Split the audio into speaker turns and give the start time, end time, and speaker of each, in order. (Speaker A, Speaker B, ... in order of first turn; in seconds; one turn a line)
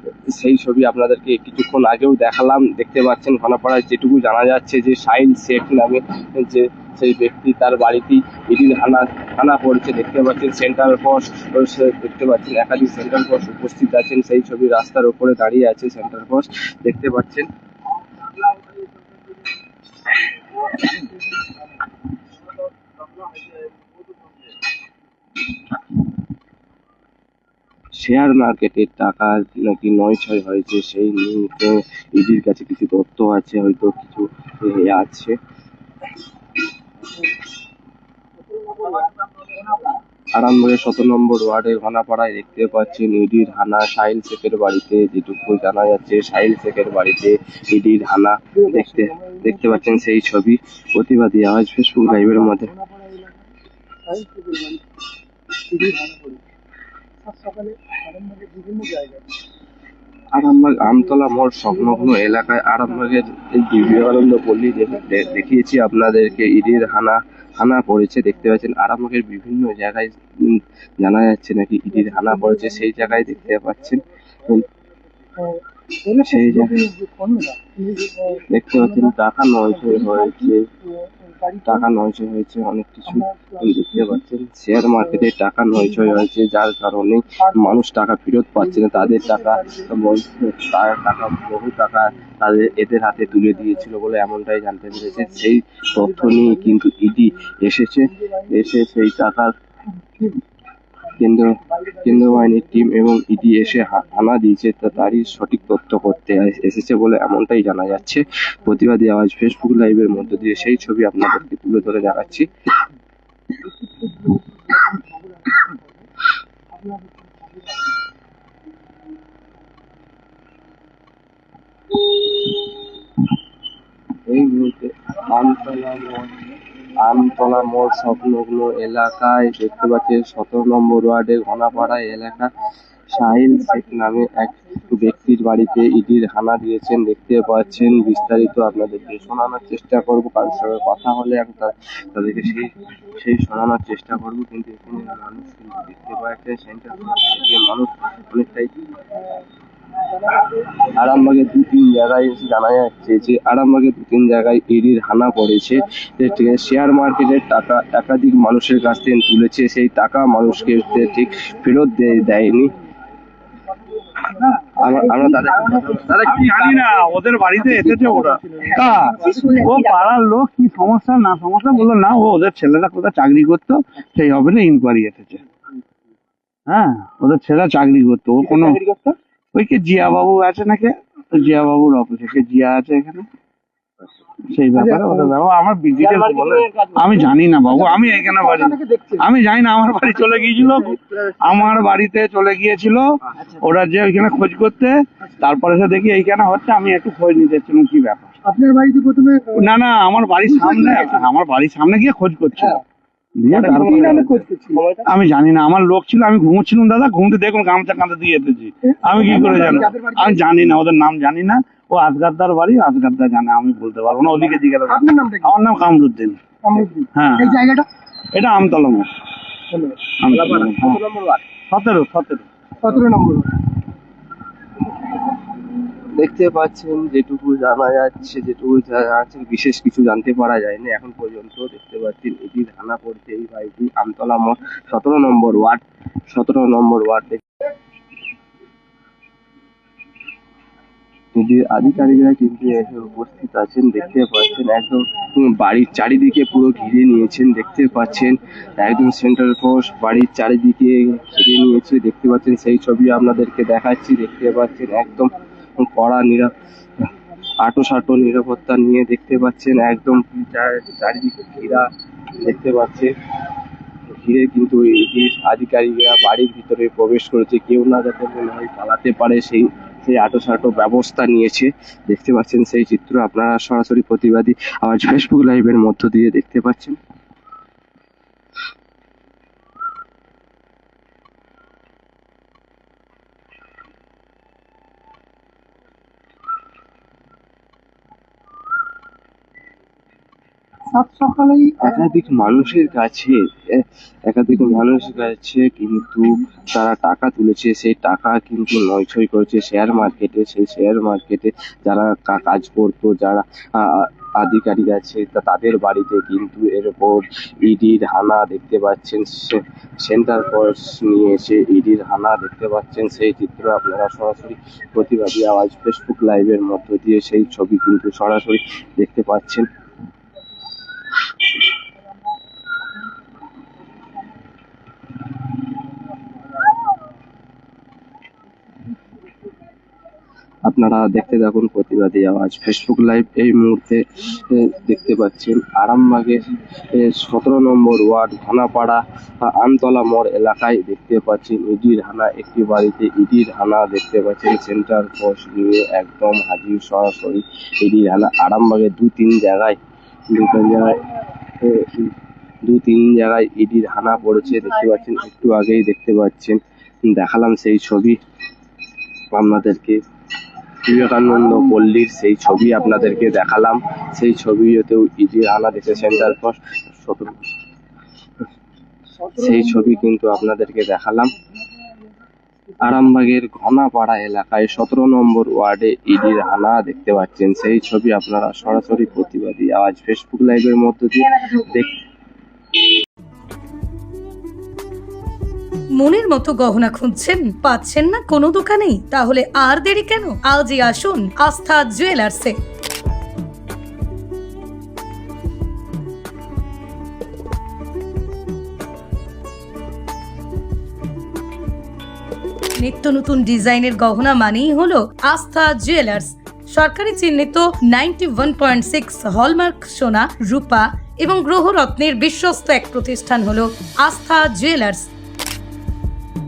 Speaker A: 0.3-17.5
Speaker A: 28.0-35.3
Speaker A: 40.4-52.7
Speaker B: 48.5-49.7
Speaker B: 52.1-53.5
Speaker B: 54.0-54.8
Speaker B: 55.7-56.4
Speaker B: 57.2-59.2
Speaker A: 60.3-74.7
Speaker B: 71.9-73.4
Speaker B: 75.4-79.1
Speaker A: 76.2-76.8
Speaker A: 78.5-80.6
Speaker B: 79.7-81.9
Speaker A: 81.6-99.5
Speaker B: 83.1-84.2
Speaker B: 85.9-86.1
Speaker B: 88.6-89.9
Speaker B: 93.4-93.7
Speaker B: 96.0-96.7
Speaker B: 98.2-98.5
Speaker B: 100.2-100.4
Speaker A: 101.2-112.5
Speaker B: 101.6-104.1
Speaker B: 105.0-105.4
Speaker B: 110.2-110.7
Speaker B: 113.6-116.0
Speaker B: 116.7-118.0
Speaker A: 124.3-126.5
Speaker A: 127.0-132.5
Speaker A: 133.1-148.9
Speaker B: 133.4-134.9
Speaker B: 137.5-139.7
Speaker B: 140.4-141.0
Speaker B: 142.4-142.7
Speaker B: 147.2-147.5
Speaker B: 149.0-149.5
Speaker B: 150.1-150.6
Speaker A: 150.9-162.7
Speaker B: 160.8-161.6
Speaker B: 162.2-162.8
Speaker B: 164.1-166.0
Speaker C: 164.3-164.8
Speaker A: 164.8-166.9
Speaker C: 166.2-175.4
Speaker B: 167.7-169.8
Speaker C: 176.7-178.8
Speaker A: 178.7-179.1
Speaker C: 179.5-183.3
Speaker C: 184.5-198.3
Speaker A: 185.9-187.0
Speaker B: 187.7-189.2
Speaker B: 198.4-199.6
Speaker C: 199.5-202.8
Speaker B: 200.5-201.2
Speaker C: 203.4-204.4
Speaker A: 203.5-205.1
Speaker B: 203.6-204.8
Speaker C: 205.0-216.4
Speaker B: 209.1-210.3
Speaker B: 214.9-215.5
Speaker B: 216.6-217.8
Speaker C: 217.1-217.6
Speaker C: 218.3-219.1
Speaker B: 219.7-220.1
Speaker C: 220.2-221.0
Speaker A: 220.3-221.4
Speaker C: 221.7-222.9
Speaker B: 222.8-223.6
Speaker A: 226.2-237.4
Speaker A: 241.3-256.6
Speaker B: 247.7-249.2
Speaker A: 257.6-261.9
Speaker A: 262.4-263.1
Speaker A: 264.1-277.0
Speaker B: 290.9-291.8
Speaker A: 291.8-319.7
Speaker A: 330.6-349.8
Speaker A: 350.3-352.1
Speaker A: 352.6-356.6
Speaker A: 357.1-358.2
Speaker A: 359.3-360.0
Speaker A: 360.8-367.4
Speaker B: 369.2-370.0
Speaker A: 369.3-371.3
Speaker A: 372.8-381.9
Speaker D: 385.9-392.6
Speaker D: 402.8-415.1